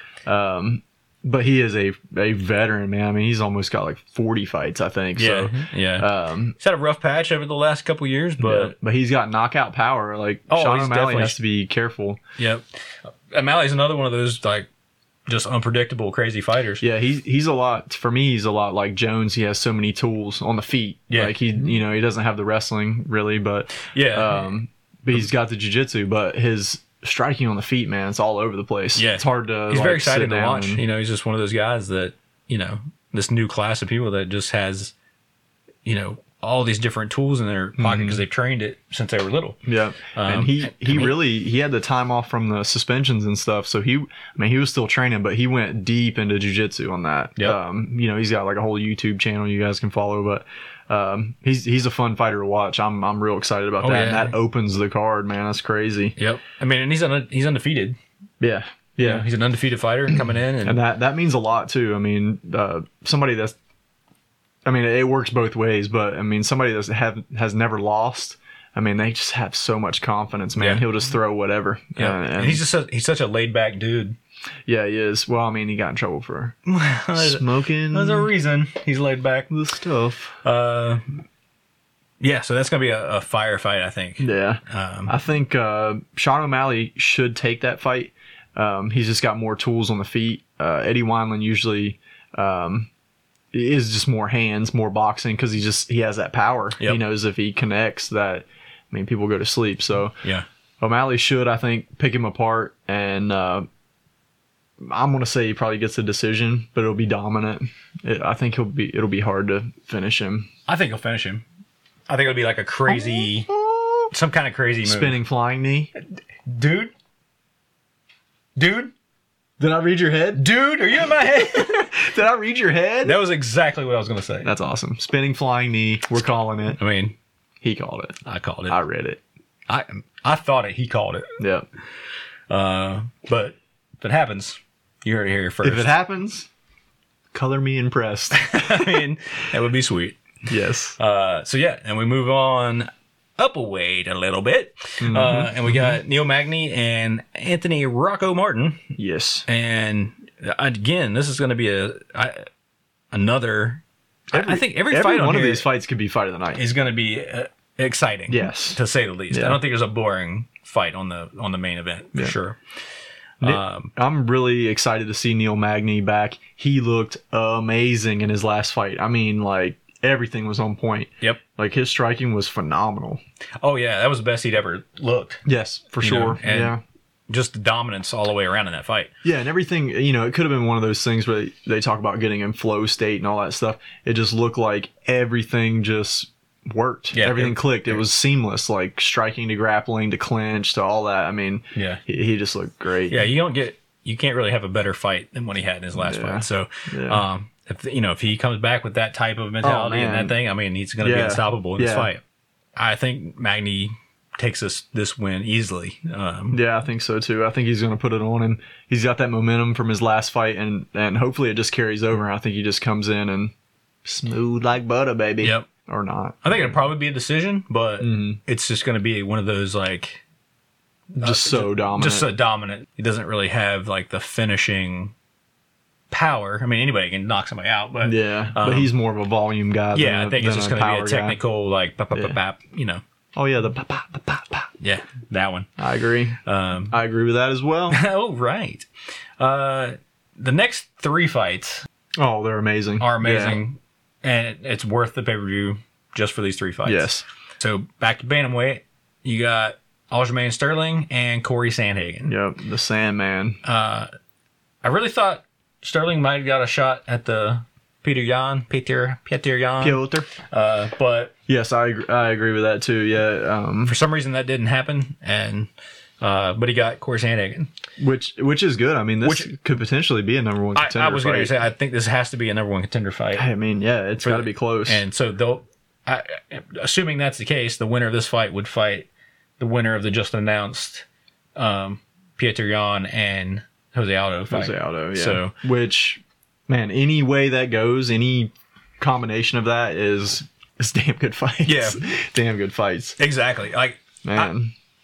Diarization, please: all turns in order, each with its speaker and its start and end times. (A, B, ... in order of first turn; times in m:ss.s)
0:00.2-0:06.6 A
0:05.2-0:08.7 B
0:08.4-0:12.2 A
0:10.5-0:11.4 B
0:12.4-0:14.7 B
0:15.3-0:16.8 B
0:16.8-0:30.8 A
0:21.1-0:21.4 B
0:23.8-0:24.4 B
0:29.0-0:34.9 B
0:35.8-0:39.6 B
0:37.8-0:38.2 A
0:39.6-0:56.2 A
0:40.2-0:41.1 B
0:53.8-0:54.4 B
0:56.2-0:58.0 B
0:58.4-0:59.2 A
0:59.0-1:00.8 B
1:00.6-1:03.6 A
1:04.6-1:12.6 A
1:10.6-1:10.8 B
1:12.0-1:14.2 B
1:14.7-1:16.6 A
1:16.6-1:19.5 B
1:17.1-1:18.3 A
1:19.5-1:20.4 A
1:20.4-1:21.2 B
1:22.2-1:25.1 B
1:24.2-1:32.9 A
1:33.5-1:40.2 A
1:40.8-1:43.7 A
1:44.8-1:50.5 A
1:50.7-1:51.4 B
1:52.1-1:53.5 B
1:52.9-1:54.1 A
1:54.1-1:55.2 B
1:54.8-1:55.9 A
1:56.4-1:56.9 B
1:58.6-1:58.9 B
1:59.6-2:00.5 A
2:00.3-2:01.9 B
2:01.2-2:03.2 A
2:03.0-2:04.5 B
2:04.4-2:06.8 A
2:06.8-2:07.2 B
2:07.6-2:09.2 A
2:08.2-2:08.8 B
2:09.7-2:11.3 B
2:11.4-2:11.6 A
2:12.5-2:15.9 B
2:15.6-2:16.5 A
2:17.3-2:19.0 A
2:18.3-2:20.2 B
2:20.5-2:21.0 A
2:21.0-2:28.9 B
2:25.0-2:26.0 A
2:29.0-2:29.5 A
2:29.5-2:32.5 B
2:33.1-2:35.7 B
2:34.3-2:36.6 A
2:36.6-2:42.6 B
2:38.3-2:38.8 A
2:39.3-2:39.6 A
2:43.4-2:43.9 B
2:43.4-2:53.2 A
2:53.6-2:55.4 B
2:55.4-2:56.8 A
2:56.0-2:56.8 B
2:57.3-2:59.1 B
2:59.2-3:13.3 A
3:07.1-3:08.0 B
3:11.7-3:12.0 B
3:13.1-3:22.2 B
3:16.0-3:17.2 A
3:19.6-3:20.4 A
3:21.0-3:22.1 A
3:22.8-3:26.6 B
3:26.5-3:33.5 A
3:34.0-3:36.8 A
3:35.4-3:35.7 B
3:36.4-3:40.2 B
3:38.0-3:38.4 A
3:41.1-3:42.3 A
3:41.2-3:45.1 B
3:46.1-3:48.9 B
3:48.0-3:51.4 A
3:49.9-3:53.0 B
3:53.4-3:54.7 A
3:54.8-3:55.7 B
3:55.8-3:56.4 A
3:56.4-3:57.0 B
3:56.9-3:58.0 A
3:57.9-3:58.9 B
3:59.4-4:01.8 B
4:02.2-4:03.6 A
4:03.0-4:12.3 B
4:06.8-4:07.2 A
4:12.2-4:13.6 A
4:13.6-4:14.1 B
4:14.8-4:21.3 B
4:19.8-4:20.3 A
4:21.5-4:24.0 A
4:23.8-4:27.7 B
4:28.0-4:31.5 A
4:29.2-4:29.5 B
4:30.7-4:33.5 B
4:33.4-4:35.0 A
4:34.2-4:39.1 B
4:39.6-4:45.5 B
4:44.5-4:53.2 A
4:51.6-4:52.0 B
4:53.2-4:54.5 B
4:54.2-4:54.7 A